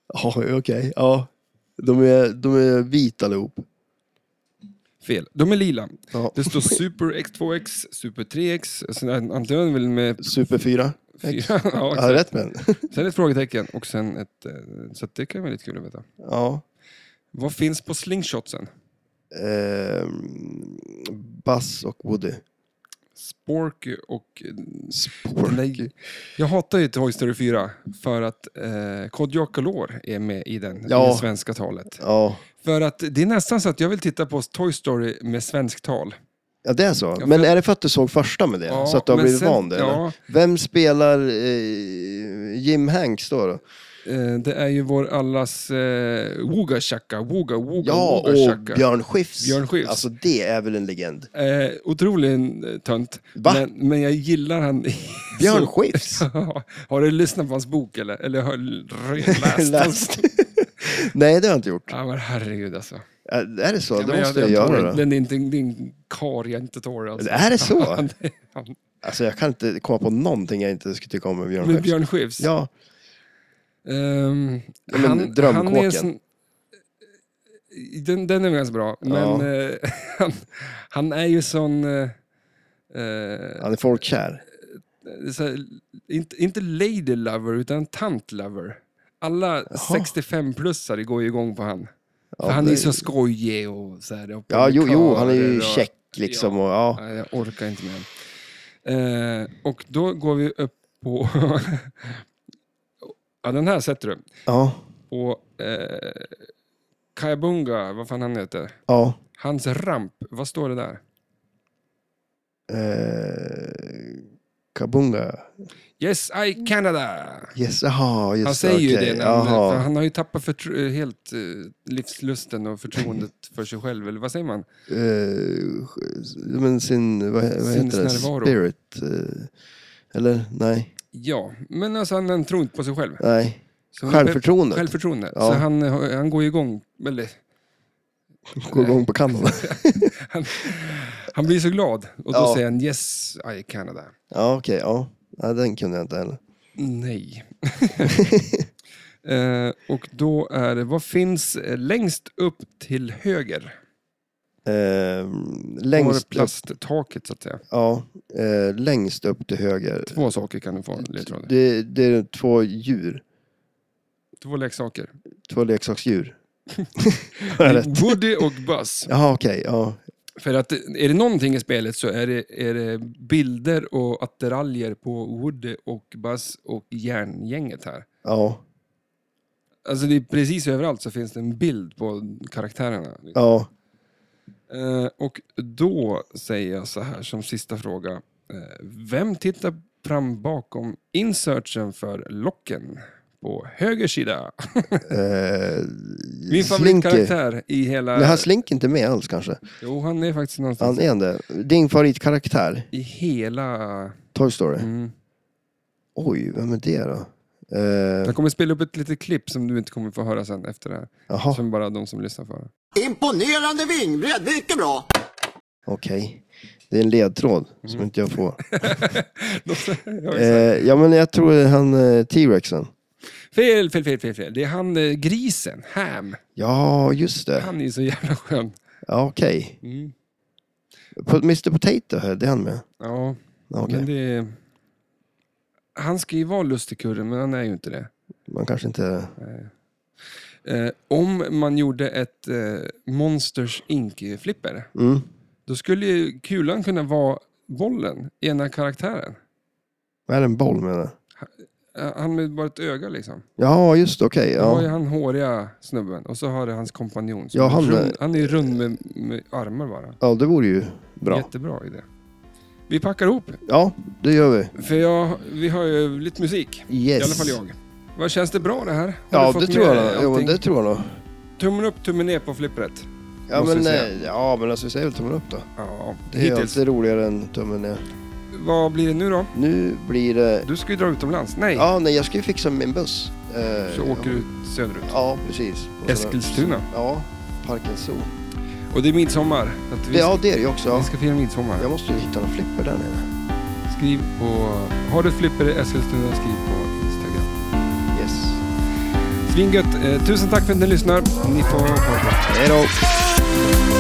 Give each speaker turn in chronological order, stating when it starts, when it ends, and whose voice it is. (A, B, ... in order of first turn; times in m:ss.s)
0:00.1-0:03.6 A
0:05.0-0:10.3 B
0:06.1-0:06.8 A
0:10.2-0:12.9 A
0:11.2-0:12.3 B
0:12.9-0:16.1 B
0:16.2-0:16.6 A
0:17.3-0:18.7 B
0:19.3-0:22.4 A
0:23.2-0:32.0 B
0:24.9-0:25.8 A
0:30.9-0:31.3 A
0:32.0-0:32.4 A
0:32.6-0:36.2 B
0:36.6-0:43.6 A
0:37.2-0:37.5 B
0:38.7-0:40.2 B
0:44.0-0:48.8 B
0:47.8-0:51.3 A
0:49.4-0:50.1 B
0:51.3-1:00.2 B
0:53.4-0:53.6 A
0:55.4-0:56.3 A
0:59.2-1:01.9 A
1:01.9-1:03.0 B
1:03.3-1:05.0 A
1:04.0-1:08.8 B
1:07.2-1:08.0 A
1:09.0-1:12.7 A
1:11.6-1:12.5 B
1:13.8-1:16.2 B
1:14.9-1:16.1 A
1:17.7-1:22.2 B
1:19.0-1:19.5 A
1:22.9-1:23.7 B
1:23.6-1:24.4 A
1:25.0-1:31.9 B
1:29.7-1:30.1 A
1:32.4-1:33.0 A
1:32.4-1:38.1 B
1:34.5-1:37.0 A
1:38.8-1:42.3 B
1:43.1-1:44.3 B
1:44.5-1:44.8 A
1:45.1-1:46.4 B
1:47.2-1:48.8 B
1:48.9-1:49.2 A
1:49.4-1:51.0 B
1:52.7-1:54.2 A
1:54.7-1:55.5 A
1:56.0-1:57.6 B
1:57.6-1:59.9 A
1:58.4-2:04.7 B
2:04.9-2:09.5 A
2:07.6-2:08.6 B
2:10.1-2:10.9 A
2:11.1-2:13.2 B
2:13.2-2:15.6 A
2:13.9-2:17.4 B
2:18.6-2:20.1 A
2:18.7-2:24.1 B
2:22.3-2:22.6 A
2:24.3-2:26.4 A
2:26.8-2:28.2 B
2:28.1-2:28.6 A
2:29.2-2:33.8 B
2:34.6-2:36.6 A
2:35.9-2:37.6 B
2:37.7-2:40.2 A
2:40.1-2:41.5 B
2:41.0-2:43.2 A
2:44.4-2:45.1 B
2:45.5-2:46.4 A
2:47.0-2:48.2 A
2:47.4-2:49.1 B
2:49.1-2:50.0 A
2:50.4-2:58.1 B
2:58.2-2:58.6 A
2:59.9-3:03.4 B
3:03.4-3:03.7 A
3:04.7-3:15.2 B
3:15.1-3:17.3 A
3:16.5-3:18.5 B
3:18.2-3:19.6 A
3:19.8-3:21.1 B
3:20.8-3:22.9 A
3:22.9-3:24.2 B
3:24.3-3:24.9 A
3:24.8-3:25.1 B
3:26.2-3:28.3 A
3:28.2-3:32.7 B
3:31.3-3:31.6 A
3:33.0-3:35.1 C
3:35.9-3:39.1 A
3:38.6-3:40.8 B
3:40.3-3:42.9 A
3:43.5-3:46.4 B
3:46.6-3:47.7 A
3:47.6-3:48.8 B
3:49.1-3:49.8 A
3:49.8-3:50.1 B
3:51.2-3:52.8 A
3:53.0-3:54.6 B
3:53.7-3:54.1 A
3:56.0-3:58.1 B
3:58.5-3:59.3 A
3:59.4-3:59.7 B
4:00.6-4:04.9 B
4:05.0-4:05.3 A
4:05.7-4:09.4 B
4:10.3-4:11.1 A
4:11.4-4:13.5 B
4:13.6-4:14.9 A
4:14.6-4:20.2 B
4:17.5-4:18.6 A
4:20.2-4:21.5 A
4:21.3-4:22.1 B
4:22.9-4:23.6 B
4:23.7-4:24.7 A
4:24.8-4:30.6 B
4:26.9-4:27.6 A
4:29.3-4:31.2 A
4:31.6-4:34.3 B
4:33.5-4:35.7 A
4:35.8-4:36.8 B
4:36.3-4:38.0 A
4:38.5-4:39.5 B
4:39.5-4:40.7 A
4:40.6-4:41.9 B
4:41.8-4:44.4 A
4:43.9-4:45.2 B
4:45.1-4:48.3 A
4:46.1-4:46.9 B
4:48.9-4:51.9 B
4:50.1-4:51.1 A
4:51.8-4:53.3 A
4:53.9-4:57.6 B
4:58.1-4:58.6 A
4:59.5-5:02.8 B
5:02.5-5:03.0 A